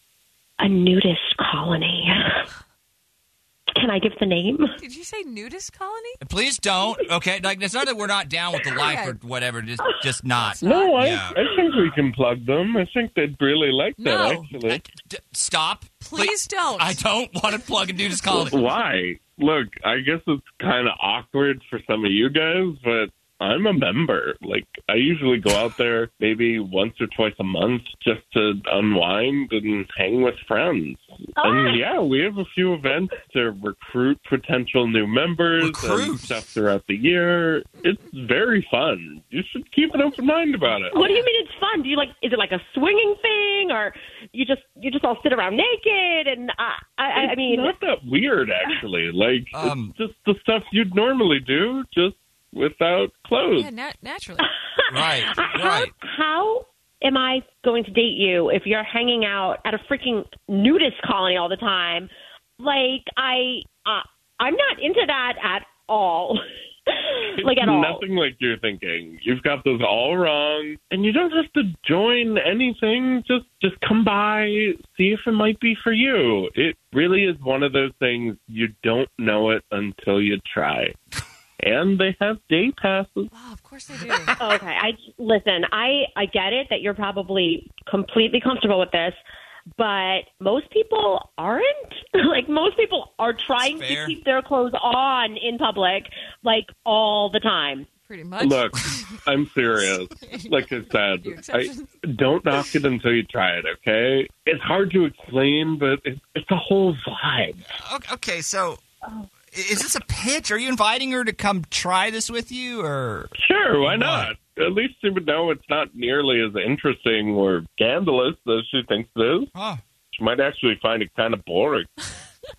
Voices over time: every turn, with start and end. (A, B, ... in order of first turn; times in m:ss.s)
0:00.6-0:02.5 A
0:03.7-0:04.7 A
0:04.8-0:06.2 B
0:06.2-0:11.4 C
0:08.8-0:09.2 B
0:10.6-0:11.0 B
0:10.6-0:14.8 D
0:14.0-0:14.5 B
0:14.5-0:18.6 C
0:16.0-0:17.0 B
0:18.2-0:18.5 B
0:18.4-0:41.1 D
0:31.4-0:31.8 A
0:35.6-0:36.3 C
0:40.9-0:47.7 A
0:47.2-0:53.7 D
0:49.5-0:49.9 C
0:53.5-0:54.5 B
0:54.4-1:02.1 A
0:54.9-0:55.9 C
1:02.6-1:08.0 A
1:07.3-1:21.0 D
1:21.6-1:23.3 D
1:23.3-1:24.4 B
1:24.4-1:29.2 A
1:29.8-1:37.9 A
1:33.6-1:34.2 C
1:38.1-1:39.1 B
1:38.4-1:47.6 D
1:40.1-1:41.9 B
1:47.7-1:48.8 C
1:49.5-1:53.3 C
1:53.4-1:59.5 D
1:53.8-1:54.3 C
1:59.5-1:59.8 C
2:00.1-2:01.9 D